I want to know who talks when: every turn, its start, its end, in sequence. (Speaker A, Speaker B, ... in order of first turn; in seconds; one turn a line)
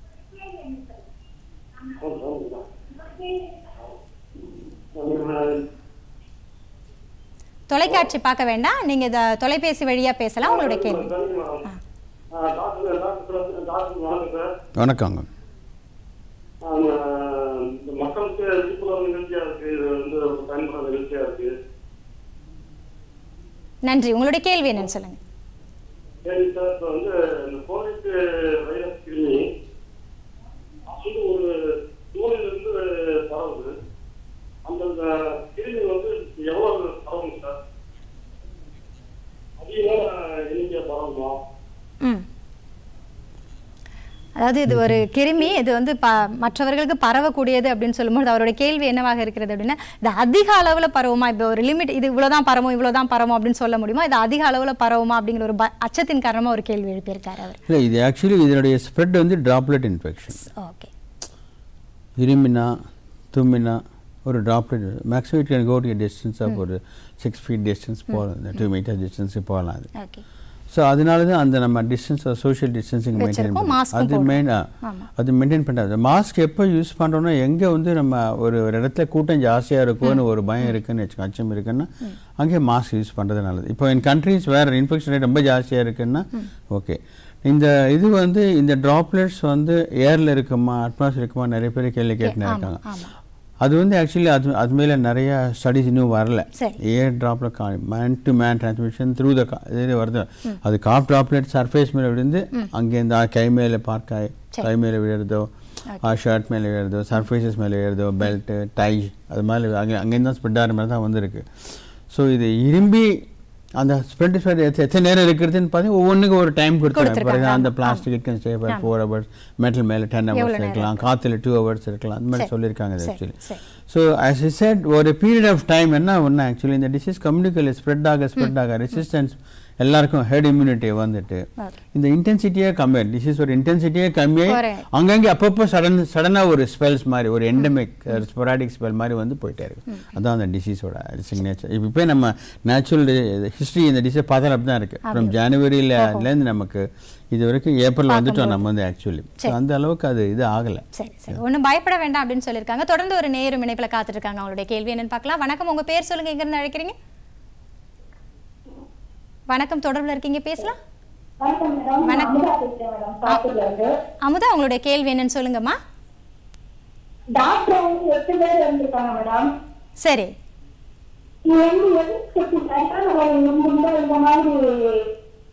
Speaker A: 2.0-2.6
Speaker A: 4.9-5.6
Speaker B: 7.7-11.1
Speaker A: 10.4-11.7
Speaker A: 12.3-14.5
Speaker C: 14.8-15.3
Speaker A: 16.6-21.5
Speaker B: 23.9-25.2
Speaker A: 26.2-29.4
Speaker A: 30.9-31.5
Speaker A: 32.1-33.7
Speaker A: 34.6-37.6
Speaker A: 39.6-41.4
Speaker B: 44.4-57.6
Speaker C: 44.7-45.0
Speaker C: 57.7-60.4
Speaker B: 60.4-60.9
Speaker C: 62.2-62.8
Speaker C: 63.3-69.9
Speaker B: 70.0-70.2
Speaker C: 70.7-92.8
Speaker B: 73.2-75.1
Speaker B: 92.2-93.1
Speaker C: 93.6-105.5
Speaker C: 106.0-113.2
Speaker C: 113.8-151.4
Speaker B: 116.9-118.0
Speaker B: 120.3-121.1
Speaker B: 123.0-123.6
Speaker B: 134.5-134.8
Speaker B: 145.0-145.3
Speaker B: 146.0-146.2
Speaker B: 148.1-148.6
Speaker B: 150.9-156.9
Speaker B: 159.5-160.8
Speaker D: 161.4-163.9
Speaker B: 162.0-162.3
Speaker B: 164.2-165.8
Speaker D: 167.3-169.5
Speaker B: 170.0-170.3
Speaker D: 171.4-175.1